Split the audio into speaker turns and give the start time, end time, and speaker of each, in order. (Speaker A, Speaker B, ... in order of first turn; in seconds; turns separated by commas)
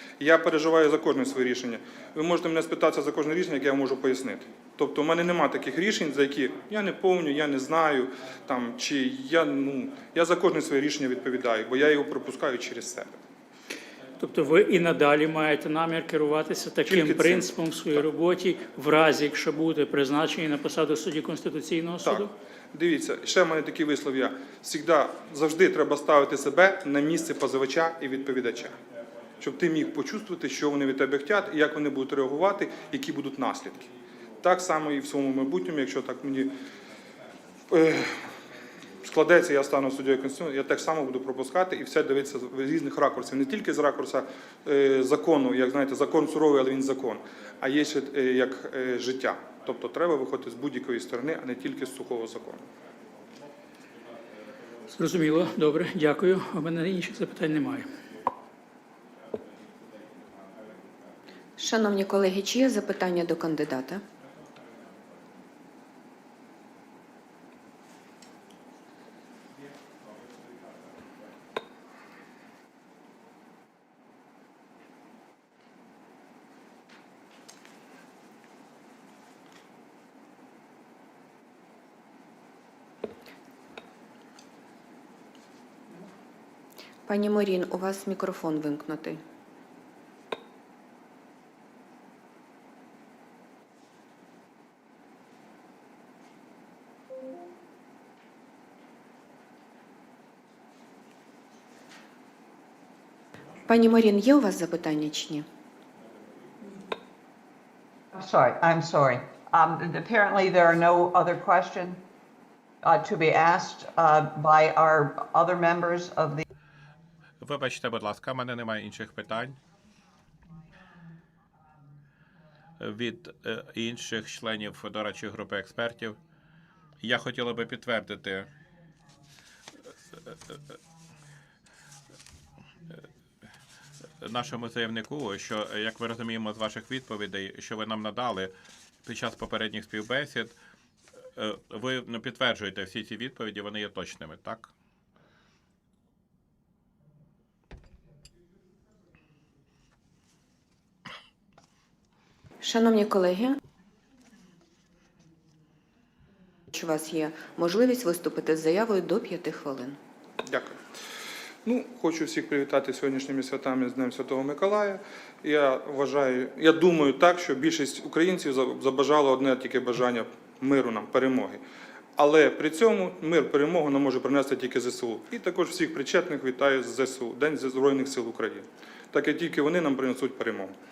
Speaker A: 0.2-13.2, Speaker B: 14.2-22.3, Speaker A: 16.9-17.5, Speaker A: 22.0-28.7, Speaker A: 29.4-33.9, Speaker A: 34.4-36.5, Speaker A: 37.7-38.3, Speaker A: 39.0-52.6, Speaker B: 54.9-57.9, Speaker C: 61.6-64.0, Speaker C: 87.1-89.2, Speaker C: 103.7-105.4, Speaker D: 108.1-112.0, Speaker D: 112.8-116.4, Speaker E: 117.4-119.6, Speaker E: 122.8-126.2, Speaker E: 127.0-128.5, Speaker E: 134.2-138.5, Speaker E: 139.0-140.6, Speaker E: 141.4-144.7, Speaker C: 152.6-153.6, Speaker C: 156.7-160.0, Speaker A: 160.4-160.8, Speaker A: 161.6-171.6, Speaker A: 172.2-180.7